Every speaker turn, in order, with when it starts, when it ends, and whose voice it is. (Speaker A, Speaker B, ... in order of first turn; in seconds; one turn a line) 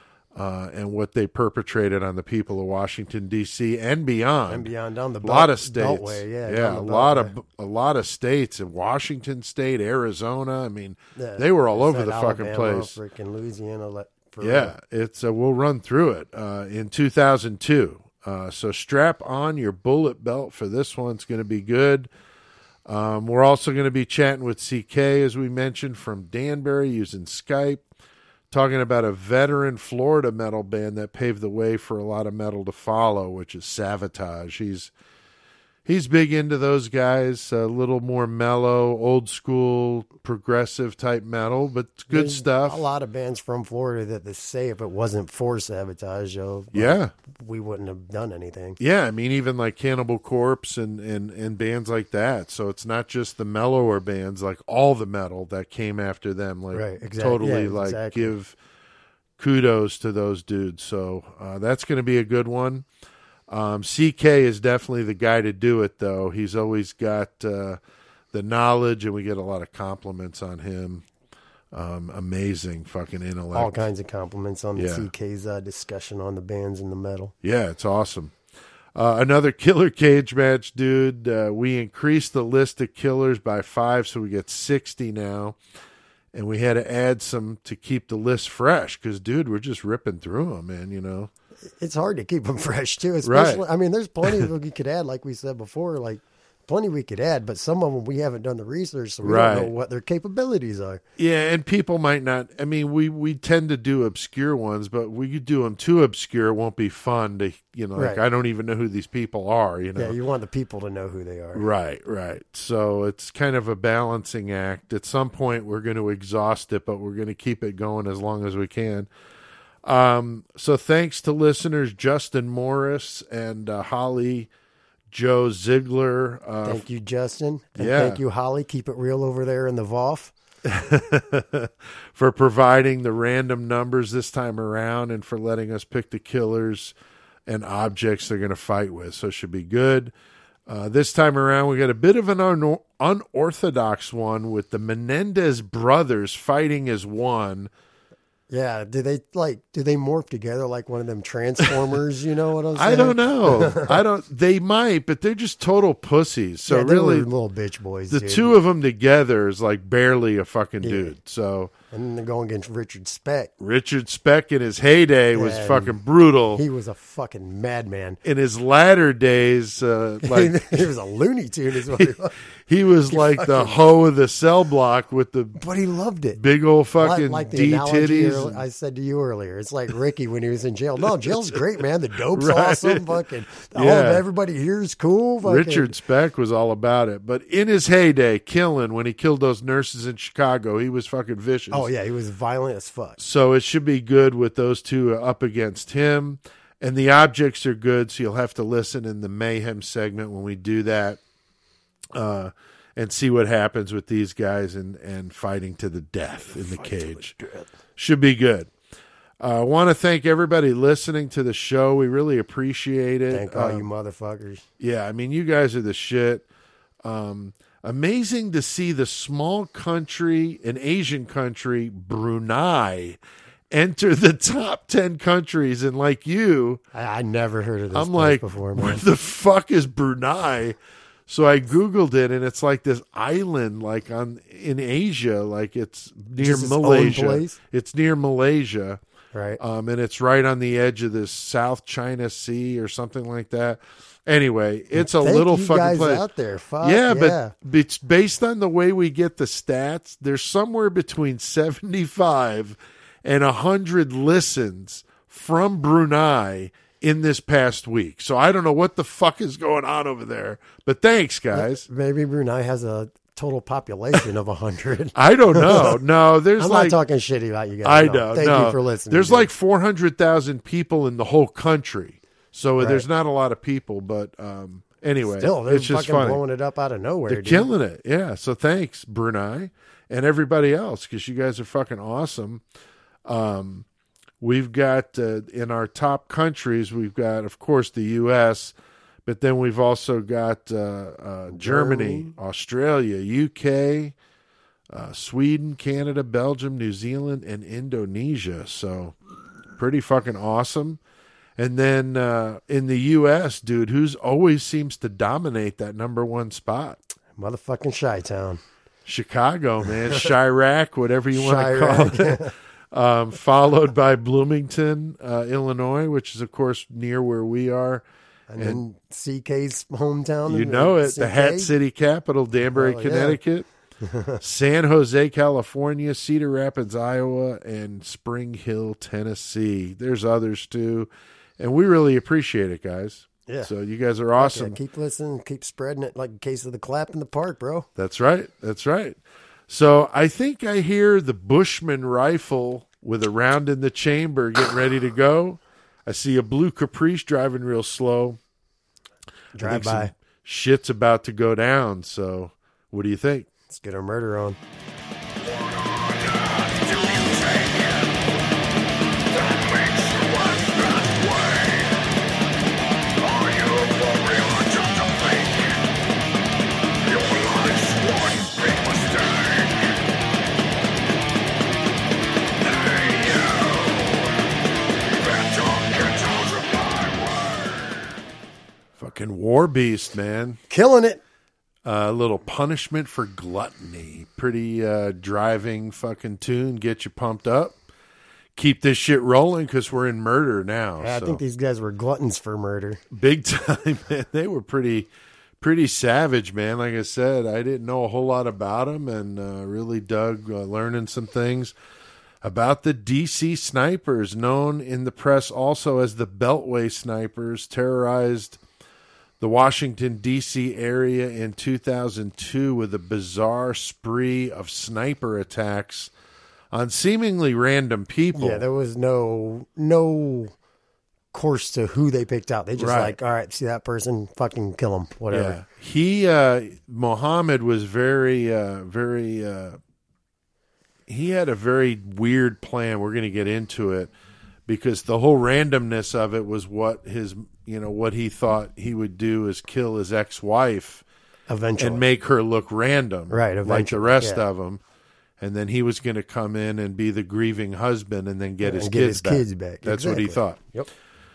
Speaker A: 0.3-4.7
Speaker B: 4.5-7.3
Speaker A: 5.2-13.0
Speaker B: 11.2-14.7
Speaker A: 14.4-22.1
Speaker A: 22.9-27.8
Speaker A: 28.5-34.9
Speaker A: 35.8-42.8
Speaker B: 42.1-48.8
Speaker A: 46.7-47.1
Speaker A: 48.8-58.5
Speaker B: 56.7-58.3
Speaker A: 59.4-62.9
Speaker A: 63.5-67.8
Speaker A: 68.3-71.0
Speaker A: 71.7-73.9
Speaker B: 73.5-77.3
Speaker A: 74.8-75.1
Speaker A: 77.4-78.3
Speaker A: 78.9-85.6
Speaker A: 86.3-91.3
Speaker B: 91.8-101.0
Speaker A: 93.2-93.6
Speaker A: 99.2-99.7
Speaker A: 101.2-110.2
Speaker B: 108.0-108.2
Speaker B: 110.0-111.6
Speaker A: 111.5-119.1
Speaker A: 119.8-124.5
Speaker A: 125.1-126.8
Speaker B: 126.6-130.3
Speaker A: 127.8-128.2
Speaker A: 130.6-136.9
Speaker A: 137.5-140.1
Speaker A: 140.7-147.7
Speaker B: 148.5-153.9
Speaker A: 152.7-157.3
Speaker B: 156.7-158.6
Speaker A: 158.1-161.7
Speaker B: 160.8-161.1
Speaker B: 161.9-163.5
Speaker A: 163.6-166.6
Speaker B: 165.3-165.9
Speaker B: 166.6-168.2
Speaker A: 168.2-170.9
Speaker B: 170.2-172.3
Speaker A: 171.9-175.6
Speaker B: 173.1-173.7
Speaker B: 175.6-176.4
Speaker A: 176.3-178.6
Speaker B: 177.0-185.9
Speaker A: 182.3-184.2
Speaker A: 185.4-191.9
Speaker B: 191.7-193.2
Speaker A: 193.2-201.2
Speaker A: 202.1-207.3
Speaker B: 206.4-207.7
Speaker A: 208.0-208.7
Speaker A: 209.4-213.8
Speaker B: 213.3-214.6
Speaker A: 214.8-216.4
Speaker A: 217.0-223.2
Speaker A: 223.7-226.8
Speaker B: 226.9-229.0
Speaker A: 227.9-239.0
Speaker B: 236.4-237.6
Speaker B: 239.3-239.6
Speaker A: 239.6-246.2
Speaker B: 244.9-247.5
Speaker A: 246.8-261.9
Speaker B: 261.5-266.0
Speaker A: 265.1-267.0
Speaker B: 266.6-269.5
Speaker A: 267.8-276.4
Speaker B: 272.8-273.1
Speaker B: 275.4-277.7
Speaker A: 277.3-282.6
Speaker A: 283.2-283.8
Speaker A: 284.4-294.1
Speaker B: 291.5-292.3
Speaker A: 294.9-299.1
Speaker A: 299.8-301.0
Speaker A: 301.6-307.0
Speaker B: 307.4-308.6
Speaker A: 309.1-318.0
Speaker B: 311.3-312.5
Speaker B: 318.5-321.7
Speaker A: 320.5-323.7
Speaker B: 322.7-323.4
Speaker B: 324.0-324.4
Speaker A: 324.4-334.8
Speaker B: 334.4-337.9
Speaker A: 338.0-348.4
Speaker B: 349.6-350.1
Speaker A: 349.6-353.5
Speaker B: 353.7-354.6
Speaker A: 379.0-380.6
Speaker B: 380.7-381.2
Speaker A: 381.8-387.8
Speaker A: 388.6-391.4
Speaker B: 391.0-393.0
Speaker A: 393.1-395.1
Speaker A: 395.6-401.7
Speaker A: 402.4-408.6
Speaker A: 409.4-416.1
Speaker A: 416.7-418.6
Speaker B: 418.3-420.5
Speaker B: 421.3-425.6
Speaker A: 422.8-423.1
Speaker A: 425.3-429.8
Speaker A: 431.1-434.1
Speaker A: 434.7-441.0
Speaker B: 441.5-442.0
Speaker A: 441.8-444.8
Speaker B: 443.3-444.4
Speaker A: 445.4-450.6
Speaker B: 448.6-450.9